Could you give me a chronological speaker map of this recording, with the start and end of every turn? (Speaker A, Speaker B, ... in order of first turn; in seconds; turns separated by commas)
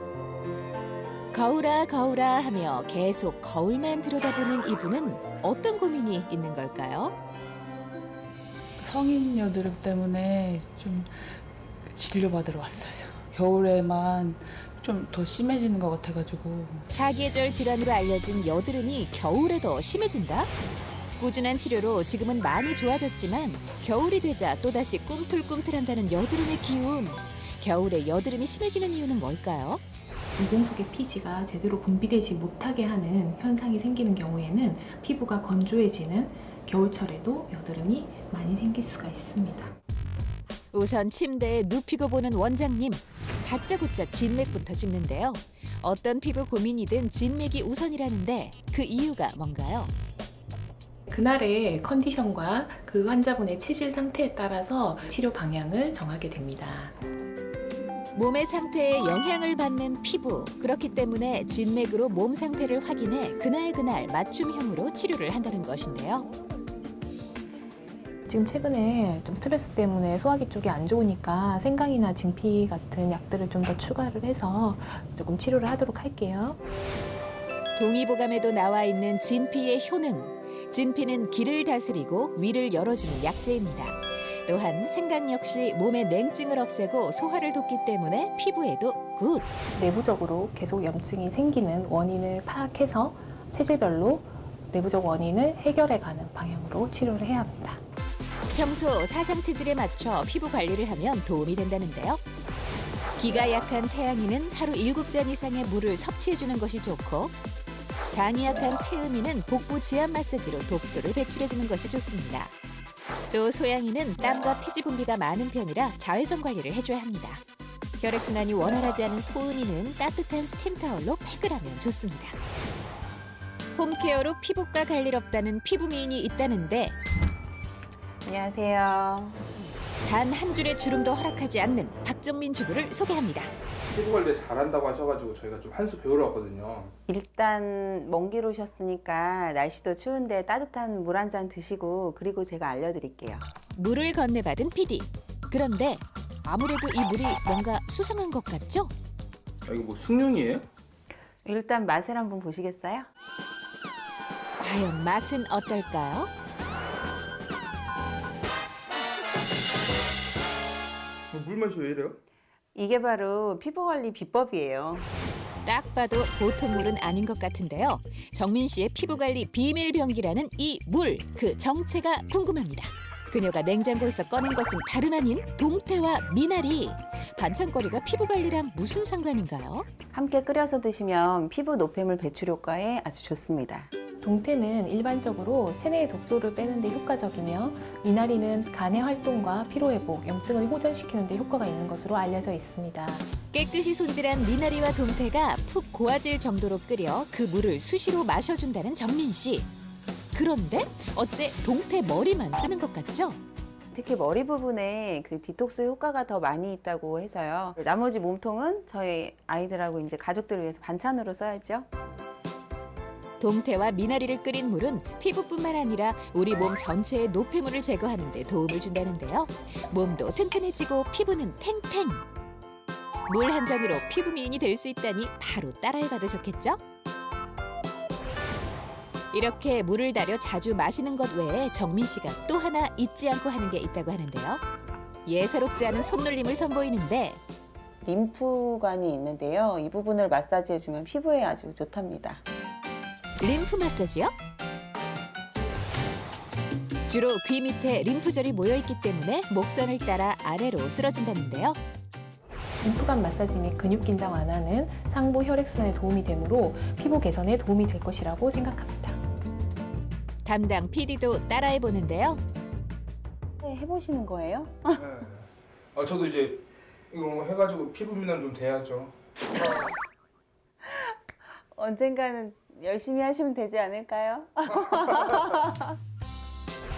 Speaker A: 1.3-7.2, Speaker B: 8.8-16.9, Speaker A: 16.9-20.5, Speaker A: 21.2-29.8, Speaker C: 30.4-39.8, Speaker A: 40.7-49.9, Speaker C: 51.1-57.0, Speaker A: 58.2-66.3, Speaker C: 68.3-76.6, Speaker A: 77.8-89.5, Speaker C: 89.8-97.8, Speaker A: 98.5-102.2, Speaker A: 103.2-107.3, Speaker A: 108.1-112.5, Speaker A: 113.3-117.4, Speaker A: 118.0-122.4, Speaker A: 123.8-127.0, Speaker D: 128.3-129.4, Speaker A: 130.1-133.5, Speaker E: 133.9-136.9, Speaker D: 137.1-143.4, Speaker A: 143.8-148.9, Speaker E: 149.7-150.7, Speaker D: 151.4-153.1, Speaker A: 154.6-156.3, Speaker E: 161.3-162.2, Speaker D: 162.8-165.1, Speaker A: 165.7-179.9, Speaker D: 180.1-183.9, Speaker C: 184.2-193.3, Speaker A: 193.5-199.7, Speaker A: 200.3-203.4, Speaker D: 203.9-211.9, Speaker A: 213.4-222.2, Speaker A: 223.3-226.8, Speaker A: 229.3-234.6, Speaker A: 235.3-237.4, Speaker D: 238.0-242.4, Speaker A: 243.4-244.3, Speaker A: 247.1-251.8, Speaker C: 252.8-259.2, Speaker A: 260.5-262.4, Speaker D: 263.6-265.0, Speaker E: 265.0-269.1, Speaker D: 270.8-271.1, Speaker D: 271.8-275.9